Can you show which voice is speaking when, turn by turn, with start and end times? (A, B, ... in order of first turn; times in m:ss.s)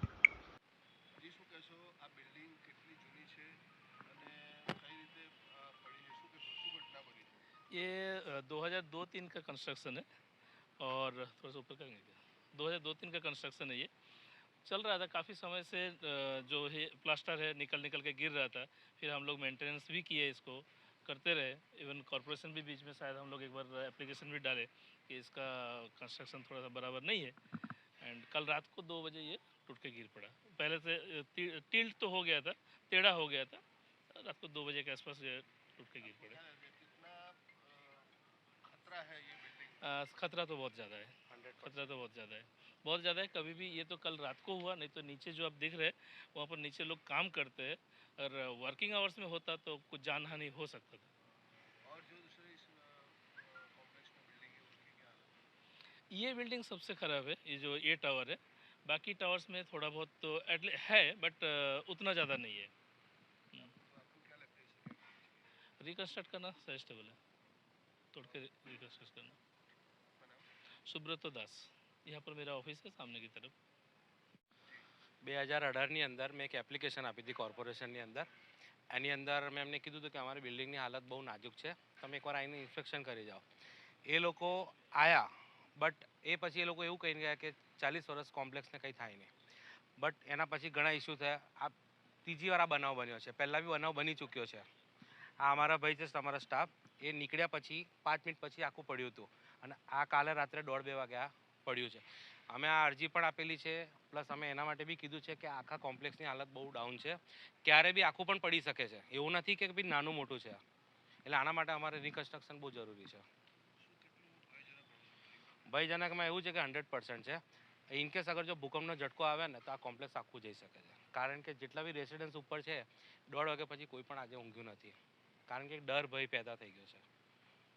0:01.2-0:07.5 A
0:07.7-0:10.0 B
0:10.8-0:13.9 B
0:14.6-0:27.4 B
0:28.0-0:33.6 B
0:34.1-0:36.4 B
0:36.0-0:39.9 A
0:39.8-0:51.1 B
0:41.3-0:41.9 C
0:51.8-0:55.4 A
0:56.1-1:02.7 B
1:03.6-1:05.4 A
1:05.8-1:07.2 B
1:08.1-1:09.4 B
1:10.2-1:10.5 A
1:10.9-1:13.5 B
1:15.2-1:18.3 C
1:18.9-1:23.4 C
1:24.1-1:29.3 C
1:30.0-1:34.7 C
1:35.4-1:50.6 C
1:51.3-1:53.2 C
1:53.8-1:55.4 A
1:55.7-2:05.0 C
2:05.5-2:07.0 C